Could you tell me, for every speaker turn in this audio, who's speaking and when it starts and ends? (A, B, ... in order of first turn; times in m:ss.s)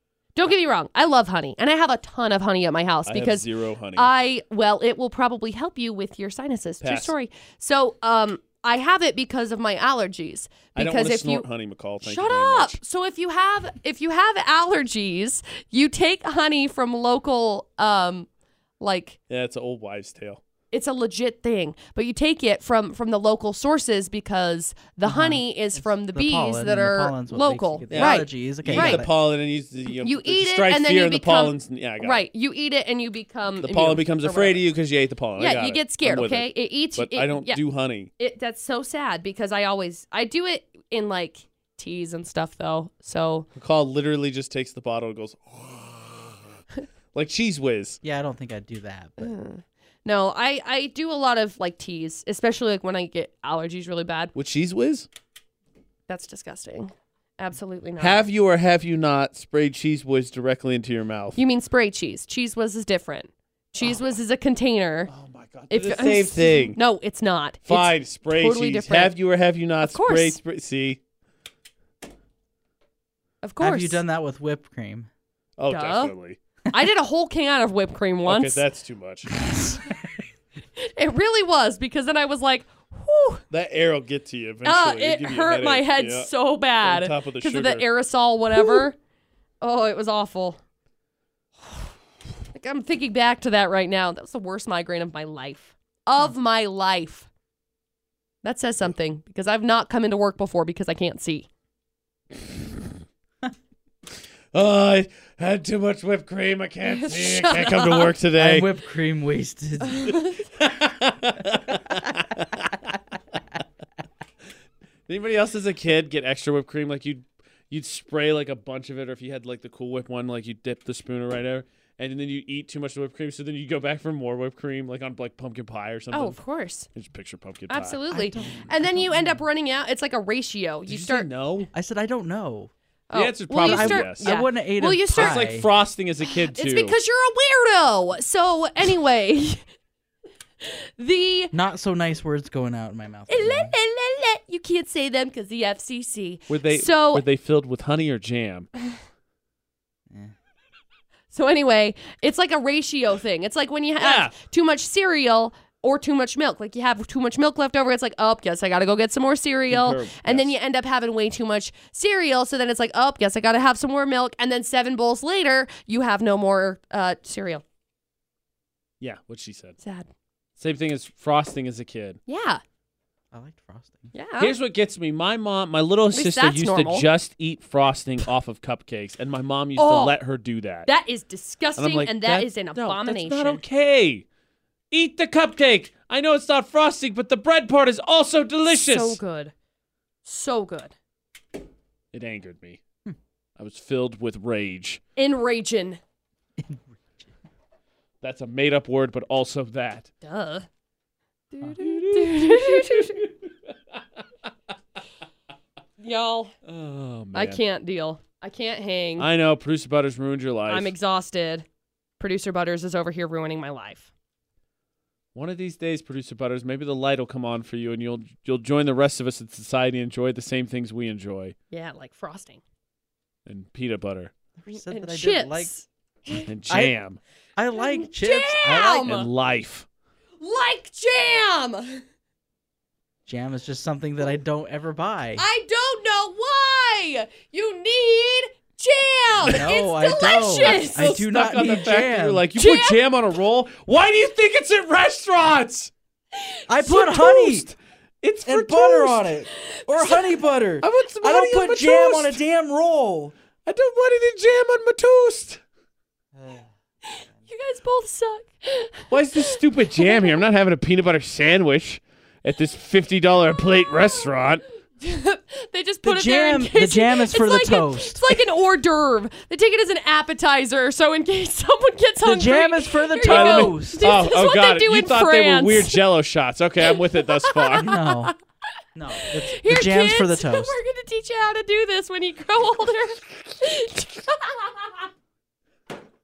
0:00.4-0:11.5 A
0:03.1-0:04.1 B
0:06.8-0:07.1 B
0:10.8-0:12.8 B
0:12.0-0:18.3 A
0:18.8-0:19.2 A
0:19.3-0:20.4 B
0:20.7-0:29.1 A
0:25.0-0:29.1 C
0:27.9-0:32.3 B
0:30.0-0:34.6 A
0:33.6-0:38.1 B
0:35.4-0:37.6 A
0:38.2-0:43.5 A
0:43.6-0:46.6 B
0:47.1-0:48.0 B
0:48.0-0:49.3 C
0:49.2-0:54.3 A
0:54.4-0:55.1 B
0:56.1-0:58.2 A
0:58.0-1:01.4 B
1:01.4-1:05.1 A
1:05.1-1:06.8 B
1:05.7-1:09.2 A
1:07.7-1:11.0 B
1:09.8-1:10.4 A
1:13.4-1:14.0 A
1:13.6-1:15.1 C
1:15.6-1:16.4 B
1:15.7-1:16.1 A
1:16.7-1:18.6 A
1:18.3-1:19.4 B
1:19.4-1:19.8 C
1:20.8-1:23.4 A
1:23.5-1:27.8 B
1:24.6-1:29.0 A
1:29.6-1:30.6 A
1:32.5-1:37.3 A
1:38.4-1:41.5 A
1:44.5-1:48.7 B
1:46.8-1:48.1 A
1:48.4-1:50.1 C
1:49.8-1:50.4 A
1:50.5-1:53.0 B
1:55.1-2:06.4 B
2:06.1-2:06.9 A
2:06.9-2:08.0 B
2:07.7-2:11.3 A
2:08.1-2:09.4 C
2:10.9-2:11.7 B
2:11.7-2:12.7 C
2:13.1-2:15.4 A
2:13.1-2:14.3 B
2:13.6-2:15.7 C
2:15.1-2:17.0 B
2:16.3-2:19.6 A
2:20.6-2:21.5 A
2:21.5-2:23.7 C
2:23.3-2:27.2 A
2:26.5-2:28.7 B
2:31.3-2:47.6 A
2:34.0-2:34.3 B
2:39.7-2:40.6 B
2:49.0-2:49.8 B
2:49.8-2:50.1 A
2:50.6-2:52.2 B
2:52.3-2:52.6 A
2:53.3-2:54.1 C
2:54.1-2:54.6 A
2:54.4-3:00.9 B
2:56.1-2:57.1 A
2:59.8-3:00.2 A
3:00.9-3:03.6 A
3:01.8-3:04.2 B
3:04.9-3:09.2 B
3:08.7-3:09.5 A
3:10.2-3:10.9 A
3:12.1-3:12.8 B
3:13.6-3:15.0 B
3:15.2-3:16.0 A
3:16.6-3:17.3 C
3:18.2-3:20.1 B
3:20.2-3:20.7 A
3:21.5-3:23.2 A
3:21.8-3:24.0 B
3:26.0-3:26.5 A
3:26.6-3:27.6 B
3:27.3-3:29.3 A
3:29.2-3:31.0 B
3:30.7-3:31.7 A
3:32.2-3:34.1 A
3:35.4-3:41.5 B
3:41.7-3:42.6 A
3:43.5-3:44.3 B
3:44.6-3:45.7 C
3:44.7-3:46.5 A
3:46.4-3:47.2 B
3:46.7-3:47.0 C
3:47.6-3:49.0 C
3:47.7-3:49.3 A
3:49.0-3:49.9 B
3:50.4-3:52.0 A
3:53.3-3:55.4 C
3:55.4-4:01.1 A
3:59.3-3:59.6 B
3:59.4-4:02.4 C
4:00.5-4:05.9 B
4:02.6-4:03.0 A
4:06.3-4:07.6 A
4:06.7-4:07.7 C
4:07.5-4:09.3 B
4:08.5-4:13.4 C
4:09.5-4:10.4 A
4:10.8-4:12.4 B
4:13.7-4:15.6 B
4:16.3-4:16.7 C
4:17.0-4:20.4 A
4:19.1-4:24.6 B
4:25.0-4:36.0 A
4:26.0-4:28.4 C
4:32.2-4:34.1 C
4:33.2-4:38.0 B
4:36.8-4:38.4 A
4:37.8-4:38.3 C
4:39.0-4:40.8 C
4:39.2-4:45.1 A